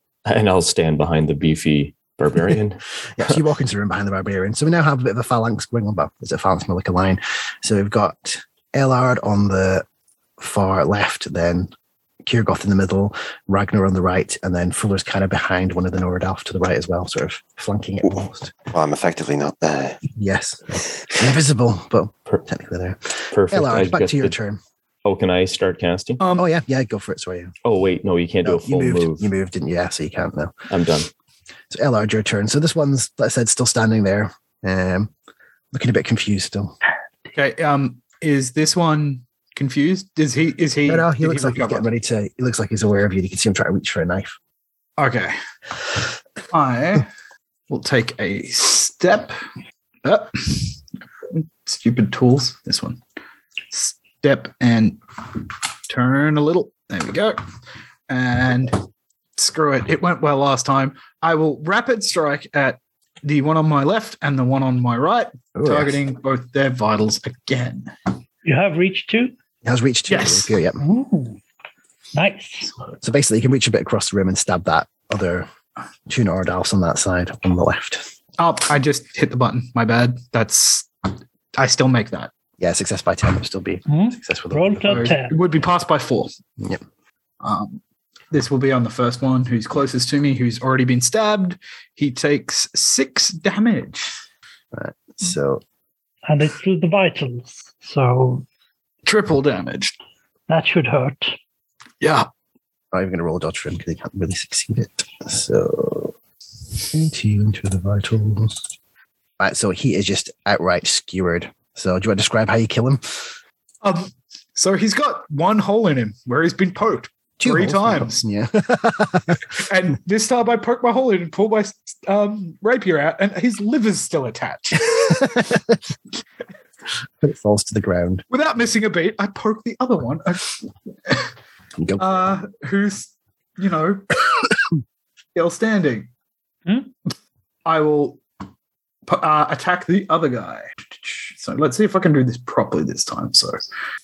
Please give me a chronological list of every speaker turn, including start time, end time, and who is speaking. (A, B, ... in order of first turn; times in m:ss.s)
0:00.3-0:03.4 A
0:03.2-0:09.9 B
0:10.4-0:11.7 B
0:12.2-0:18.5 B
0:18.1-0:20.0 C
0:20.2-0:24.6 B
0:23.3-0:24.4 A
0:25.0-0:26.2 A
0:26.2-0:26.5 D
0:26.4-0:27.6 B
0:27.6-0:29.3 A
0:28.4-0:30.6 B
0:30.7-0:31.1 A
0:31.7-0:35.1 B
0:35.7-0:36.8 B
0:37.4-0:41.9 D
0:40.9-0:44.4 B
0:45.0-0:45.4 D
0:46.5-0:47.1 D
0:47.7-0:49.4 D
0:50.0-0:50.8 D
0:51.3-0:53.0 D
0:53.7-0:55.0 D
0:55.9-0:57.4 D
0:58.1-0:58.8 D
0:59.4-1:07.9 D
1:05.6-1:06.0 B
1:08.4-1:09.3 E
1:09.6-1:10.8 B
1:10.1-1:10.5 D
1:10.8-1:11.4 E
1:12.1-1:12.7 E
1:13.0-1:15.5 B
1:16.1-1:18.1 B
1:18.4-1:20.9 D
1:21.6-1:22.3 D
1:22.6-1:25.1 B
1:23.9-1:25.3 E
1:24.9-1:26.3 D
1:27.4-1:27.8 D
1:28.3-1:34.2 D
1:34.7-1:35.6 B
1:36.3-1:38.4 E
1:39.0-1:39.9 D
1:40.5-1:41.4 E
1:42.0-1:42.3 D
1:42.9-1:46.2 B
1:46.9-1:48.6 B
1:49.4-1:53.4 B
1:53.8-1:58.2 D
1:57.4-1:59.4 B
1:59.5-2:05.5 D
2:05.2-2:05.8 B
2:07.2-2:08.2 B
2:08.3-2:11.3 D
2:11.8-2:12.3 B
2:12.0-2:14.5 D
2:15.4-2:16.1 D
2:17.7-2:18.2 D
2:19.1-2:23.6 D